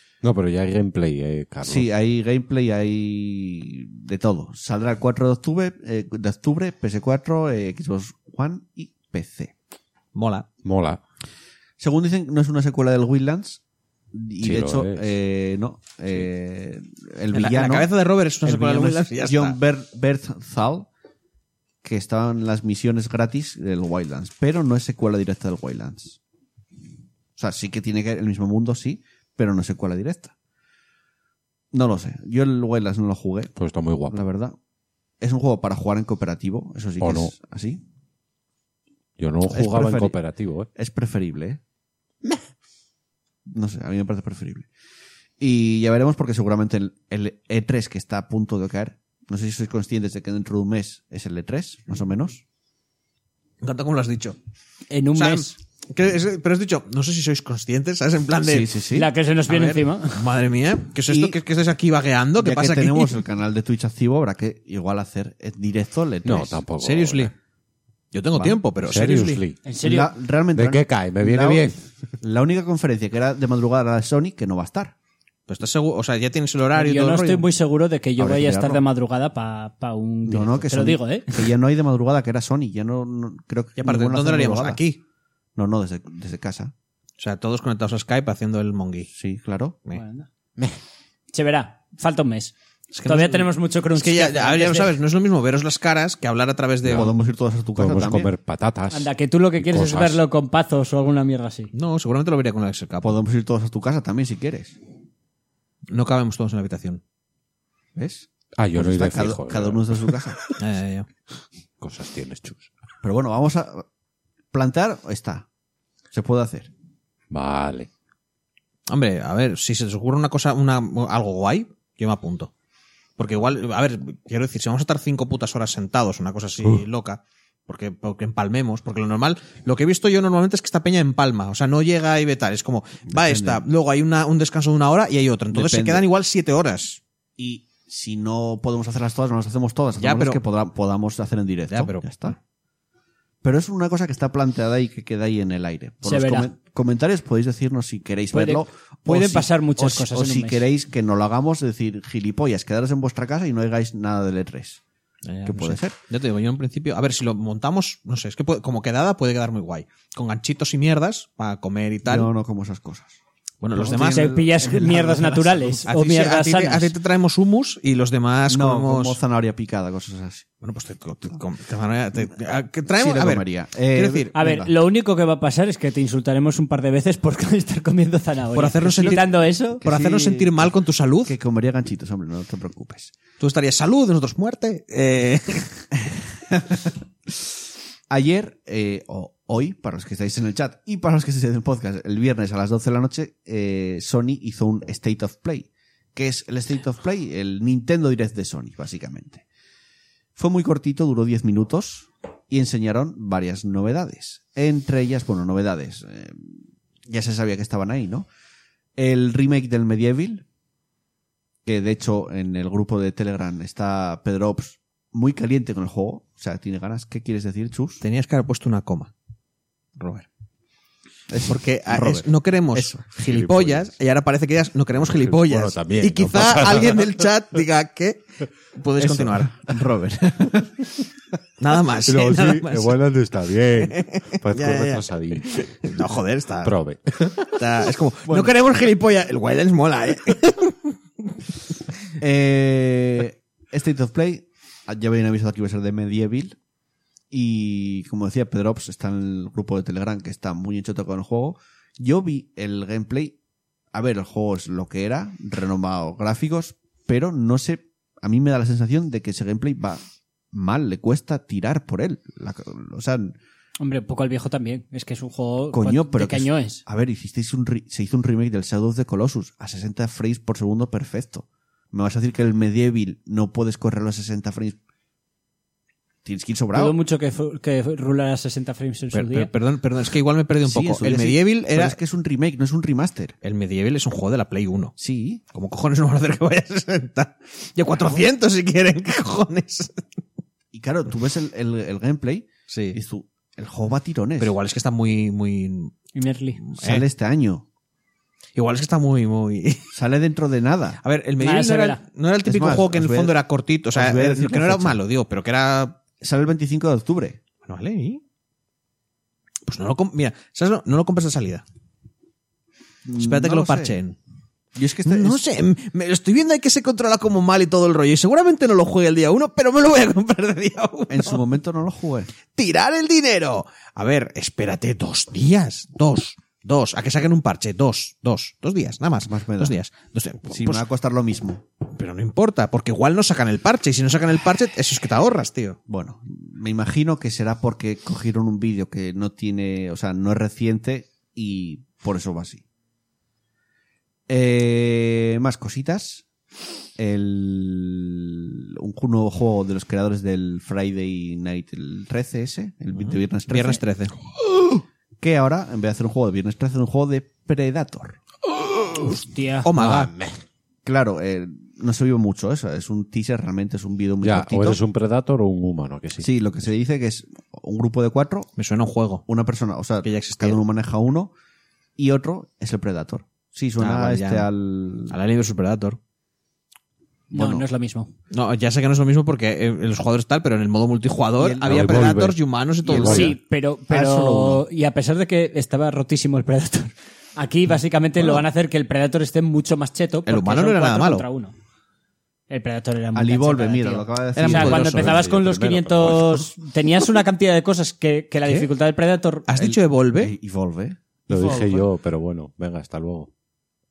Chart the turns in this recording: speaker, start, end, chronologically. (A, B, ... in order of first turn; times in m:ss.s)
0:00.2-0:01.9 A
0:01.6-0:09.5 B
0:10.1-0:10.5 C
0:10.6-0:11.0 A
0:11.8-0:13.6 B
0:14.1-0:17.9 B
0:14.4-0:15.1 A
0:17.3-0:19.5 C
0:18.4-0:20.9 B
0:21.8-0:26.2 B
0:27.4-0:30.3 B
0:31.7-0:33.5 B
0:33.6-0:34.2 A
0:34.1-0:34.6 B
0:35.2-0:37.8 B
0:37.0-0:37.3 A
0:39.2-0:40.7 A
0:39.5-0:40.2 B
0:40.8-0:41.6 B
0:43.4-0:44.7 B
0:45.4-0:52.4 B
0:53.6-0:54.4 C
0:54.9-0:55.5 D
0:55.1-0:58.7 C
0:58.4-0:59.1 B
0:58.9-1:00.2 D
0:59.5-1:03.2 C
1:01.1-1:01.4 B
1:02.4-1:06.6 B
1:06.2-1:07.3 A
1:06.8-1:07.3 C
1:08.1-1:09.4 C
1:08.3-1:08.6 B
1:08.8-1:09.6 A
1:09.6-1:10.1 D
1:09.8-1:11.7 B
1:10.5-1:11.9 A
1:12.2-1:14.9 B
1:15.5-1:17.5 C
1:16.7-1:21.4 D
1:18.2-1:18.8 B
1:20.2-1:24.8 B
1:23.8-1:25.0 C
1:25.6-1:26.7 B
1:27.2-1:29.1 C
1:29.1-1:29.8 B
1:29.9-1:30.3 D
1:31.3-1:35.0 D
1:32.9-1:37.1 C
1:36.8-1:38.3 B
1:37.8-1:40.2 A
1:38.9-1:41.7 D
1:41.7-1:43.2 C
1:43.0-1:44.8 B
1:45.9-1:47.0 C
1:47.9-1:50.4 B
1:48.6-1:50.2 A
1:50.6-1:51.1 C
1:51.8-1:52.7 A
1:53.0-1:53.8 B
1:54.5-1:55.4 B
1:56.1-1:56.7 B
1:57.3-1:57.9 A
1:58.9-2:02.5 C
2:03.2-2:17.0 C
2:13.1-2:13.6 B
2:15.5-2:16.0 B
2:17.4-2:22.4 B
2:20.0-2:20.4 C
2:21.7-2:22.4 C
2:23.4-2:34.8 B
2:26.0-2:26.5 D
2:28.3-2:30.6 D
2:35.2-2:42.3 C
2:35.4-2:36.0 B
2:42.0-2:43.2 B
2:43.6-2:44.3 C
2:43.7-2:45.8 B
2:43.8-2:46.9 D
2:45.8-2:49.2 C
2:48.5-2:50.5 B
2:50.6-2:54.3 C
2:52.9-2:54.7 B
2:54.3-2:59.8 D
2:58.5-2:59.3 C
2:59.8-3:03.1 B
2:59.8-3:01.4 C
3:03.4-3:05.8 C
3:06.1-3:06.9 B
3:08.1-3:19.4 B
3:20.4-3:28.3 B
3:29.0-3:30.4 B
3:31.6-3:38.0 B
3:38.0-3:39.1 C
3:40.0-3:40.2 C
3:41.3-3:43.0 B
3:41.5-3:49.6 C
3:43.2-3:43.9 A
3:45.0-3:47.1 A
3:49.0-3:50.9 B
3:51.6-3:53.0 C
3:52.1-3:55.5 A
3:53.8-3:56.7 C
3:56.6-3:57.3 A
3:57.4-4:00.9 C
3:58.2-3:58.5 B
4:02.2-4:06.6 B
4:07.3-4:13.4 B
4:13.9-4:20.0 B
4:20.5-4:23.4 B
4:23.8-4:26.8 D
4:25.7-4:34.8 B
4:36.2-4:37.0 B
4:36.7-4:39.5 D
4:39.1-4:42.0 C
4:40.6-4:43.4 B
4:43.4-4:44.9 C
4:45.0-4:45.4 B
4:45.5-4:50.0 C
4:50.7-4:54.6 B
4:52.7-4:53.0 C
4:54.4-4:56.0 C
4:56.1-4:56.6 D
4:56.6-4:57.0 C
4:56.8-4:57.6 B
4:58.6-4:59.9 C
4:59.9-5:01.0 B
5:01.0-5:06.0 C
5:01.4-5:02.0 D
5:02.4-5:03.4 B
5:03.9-5:05.0 B
5:06.2-5:07.4 B
5:07.6-5:08.2 C
5:09.6-5:11.6 C
5:13.0-5:14.0 B
5:13.1-5:14.2 C
5:14.7-5:15.4 B
5:15.0-5:21.4 C
5:21.1-5:22.3 B
5:22.5-5:30.8 C
5:29.2-5:29.8 B
5:30.4-5:31.6 B
5:31.9-5:35.8 C
5:35.9-5:42.6 B
5:44.3-5:46.2 B
5:47.0-5:53.8 B
5:53.5-5:54.1 C
5:54.4-5:58.2 B
5:59.2-5:59.7 D
5:59.6-6:00.1 C
5:59.8-6:00.4 A
6:00.8-6:04.8 B
6:04.2-6:06.3 A
6:06.2-6:08.5 B
6:08.6-6:09.2 C
6:09.3-6:11.3 B
6:10.0-6:10.6 C
6:12.0-6:15.2 B
6:13.8-6:14.5 C
6:15.1-6:16.0 C
6:17.3-6:18.1 D
6:17.3-6:17.6 B
6:18.3-6:23.3 C
6:21.4-6:22.2 B
6:21.7-6:23.3 A
6:22.9-6:23.3 B
6:23.0-6:31.5 D
6:23.9-6:24.6 B
6:30.2-6:31.2 C
6:32.5-6:39.5 D
6:33.1-6:36.2 B
6:34.4-6:35.2 C
6:35.0-6:36.2 A
6:39.5-6:40.3 C
6:39.5-6:41.8 B
6:41.3-6:43.3 A